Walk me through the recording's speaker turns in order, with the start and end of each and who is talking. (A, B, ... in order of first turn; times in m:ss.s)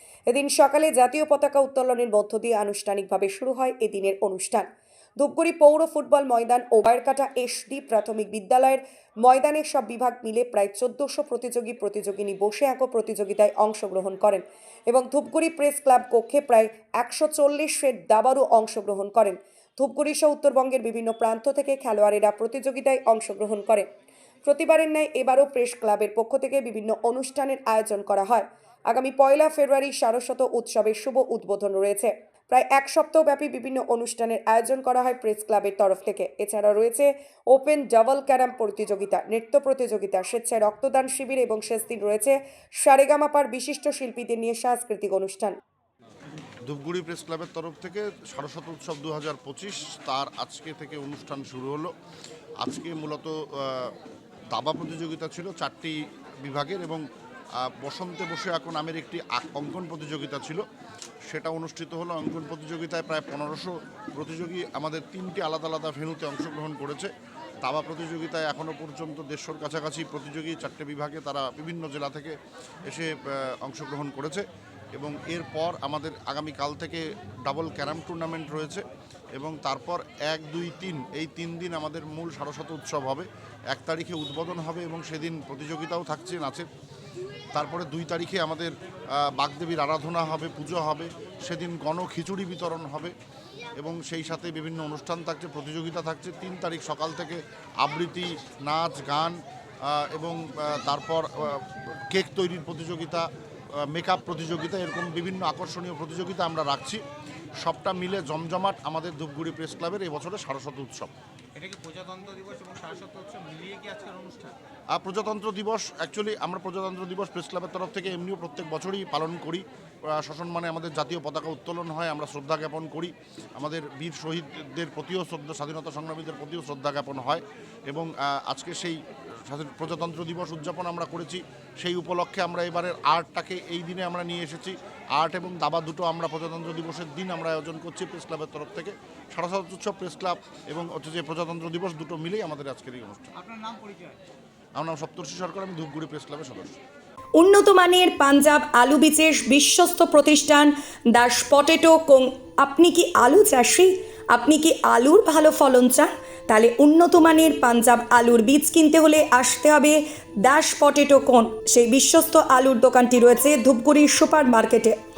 0:00.3-0:04.7 A
0:05.2-0:23.9 A
0:24.4-0:45.6 A
0:46.6-0:51.9 B
0:52.6-0:53.9 B
0:54.5-0:57.0 B
0:57.6-1:00.6 B
1:01.3-1:07.1 B
1:07.6-1:26.7 B
1:27.5-1:33.1 B
1:33.8-1:47.0 B
1:47.6-1:51.1 B
1:51.6-1:54.6 C
1:54.9-2:23.4 B
2:23.4-2:24.2 C
2:24.8-2:26.8 B
2:27.4-2:45.0 A